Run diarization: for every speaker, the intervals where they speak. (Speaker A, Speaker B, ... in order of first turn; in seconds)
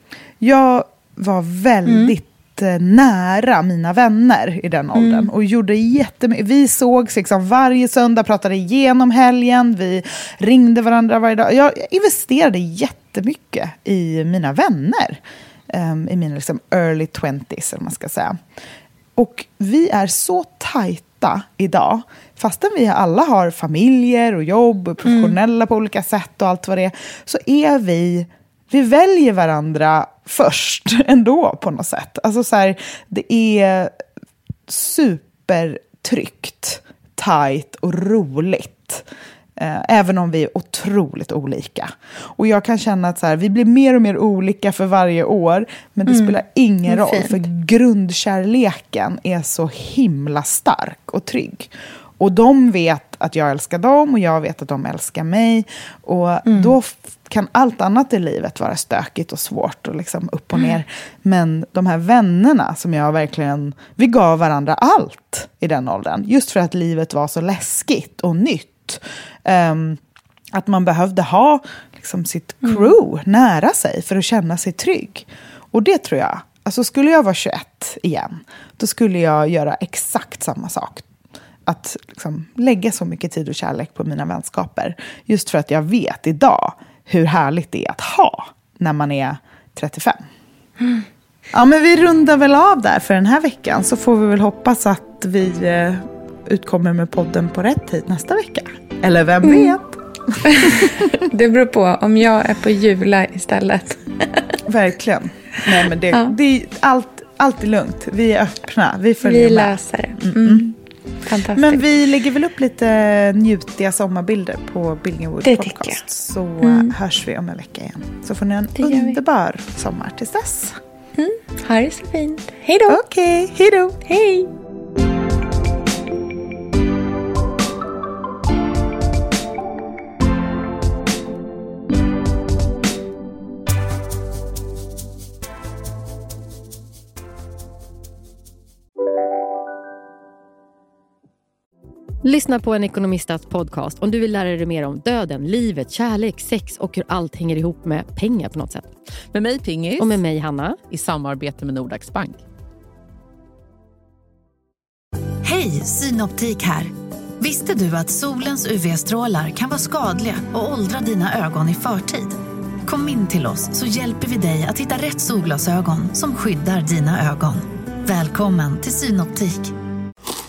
Speaker A: 0.4-18.4, 19.2-34.0, 34.7-39.0, 39.6-70.0, 70.5-81.1, 81.7-90.2, 91.5-101.2, 104.7-110.7, 111.5-120.8, 122.9-124.0
Speaker B: 1.9-2.1, 4.9-5.3, 25.0-25.4, 46.1-47.4, 56.5-56.7, 72.7-72.9, 99.4-99.8, 100.4-104.6, 109.2-111.9, 115.4-116.0, 116.6-117.0, 118.8-119.2, 121.2-123.0, 124.0-124.5
Speaker C: 142.2-148.9, 150.0-150.8
Speaker D: 149.3-150.2, 150.9-152.4
Speaker E: 155.4-169.7